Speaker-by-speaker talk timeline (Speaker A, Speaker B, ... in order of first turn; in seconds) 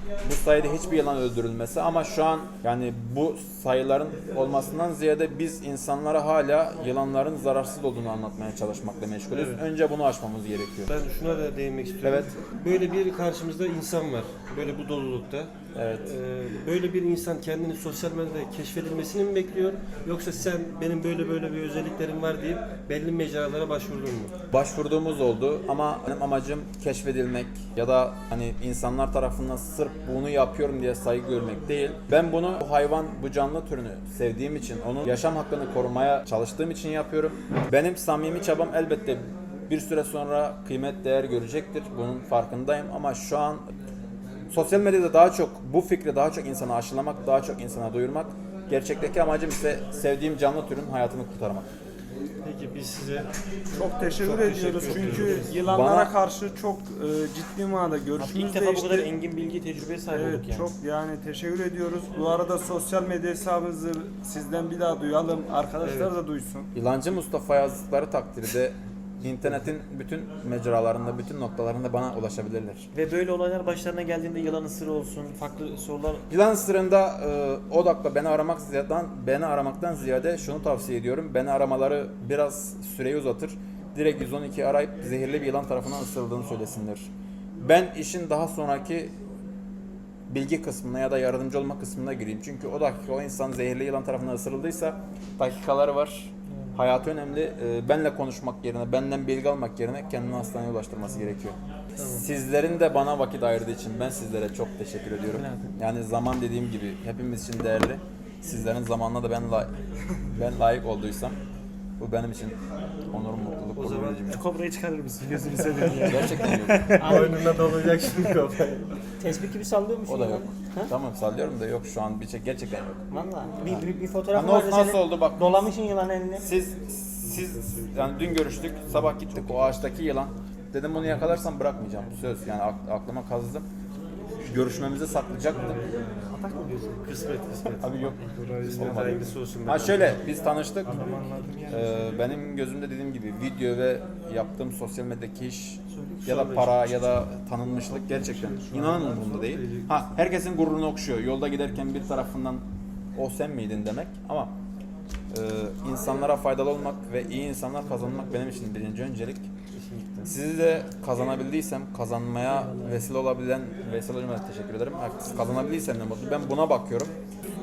Speaker A: 0.2-10.9, 12.0-12.3, 15.7-16.1, 24.5-43.7, 44.5-51.7, 55.6-56.1, 66.7-72.9, 76.3-89.2, 90.3-109.7, 110.3-111.4, 112.0-112.6, 113.1-114.4, 116.0-117.0, 120.1-123.1, 123.7-125.5, 126.4-133.7, 134.4-135.8, 137.8-138.2, 138.8-141.0, 141.7-152.6, 153.2-154.5, 155.3-159.5, 160.2-167.2
Speaker B: 9.3-9.6, 10.9-24.3, 52.4-53.3, 54.1-55.6, 65.8-66.1, 113.8-114.2, 116.9-118.9, 137.0-137.9, 138.6-140.2, 146.1-146.9, 159.7-160.3
Speaker C: 53.8-59.1, 60.1-66.7, 115.2-116.5, 138.2-139.3, 140.9-141.9, 147.9-149.9
Speaker D: 54.8-55.5, 58.2-60.7, 72.9-76.3, 105.4-105.7, 114.3-117.3
Speaker E: 117.0-117.3, 119.2-120.9, 123.1-126.5